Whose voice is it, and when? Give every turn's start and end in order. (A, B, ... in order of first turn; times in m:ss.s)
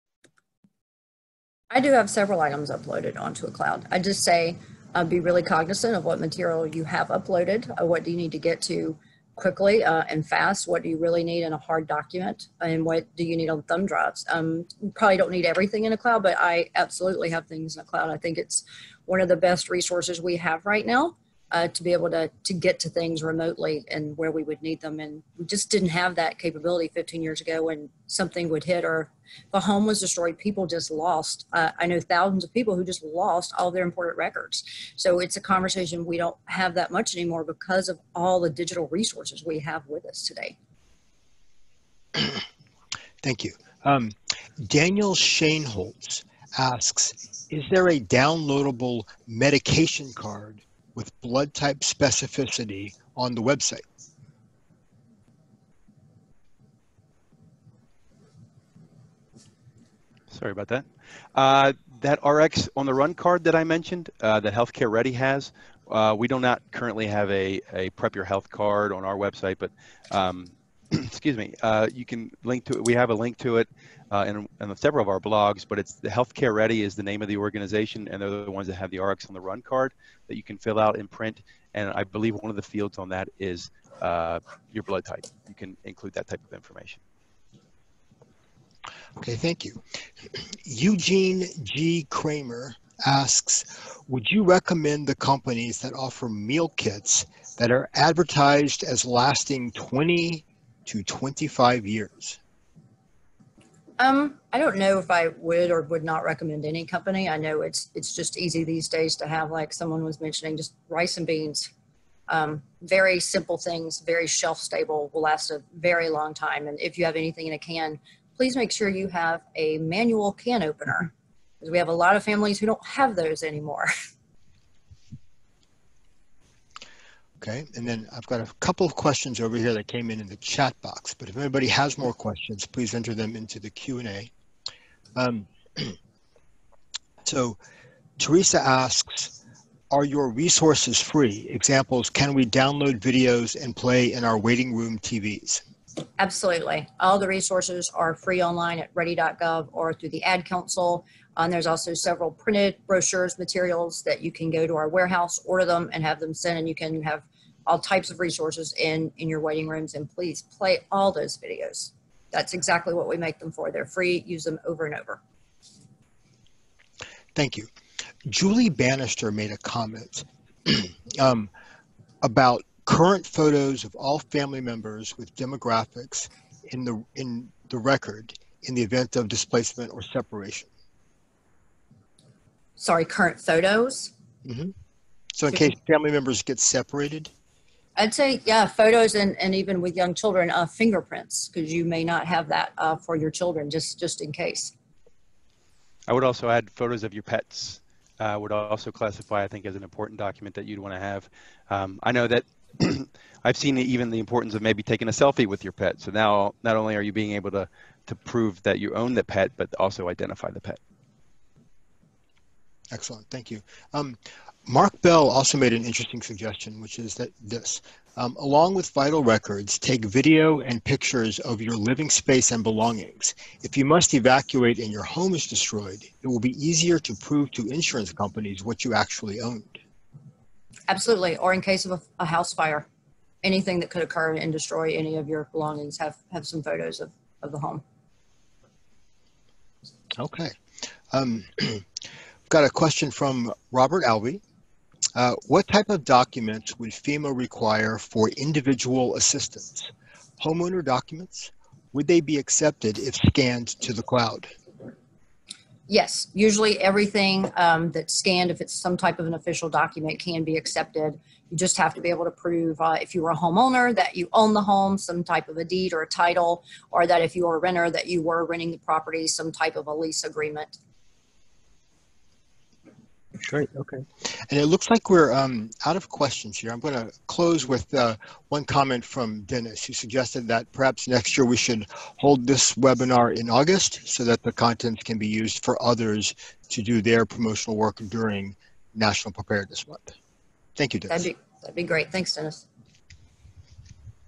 0:01.7-0:40.6 A
0:42.1-0:42.4 B
0:43.2-0:53.8 B
1:00.3-1:27.0 C
1:29.2-1:29.8 B
1:30.3-1:42.4 B
1:44.0-1:51.7 A
1:52.3-2:03.9 A
2:07.4-2:14.3 B
2:15.2-2:16.0 B
2:17.2-2:17.6 B
2:18.2-2:19.3 B
2:19.9-2:25.6 B
2:26.2-2:45.2 A
2:47.3-2:47.7 B
2:48.3-2:51.5 B
2:52.2-3:00.7 B
3:02.8-3:04.1 A
3:04.4-3:04.7 B
3:05.3-3:07.3 B
3:08.0-3:14.7 A
3:16.1-3:30.8 C
3:32.9-3:49.8 B
3:50.9-3:52.8 A
3:53.4-3:57.8 A
4:00.2-4:00.6 B
4:01.1-4:01.8 B
4:02.5-4:04.4 B
4:05.1-4:14.5 B
4:15.9-4:30.8 A
4:33.4-4:50.1 B
4:50.8-4:51.3 B
4:51.1-4:52.6 A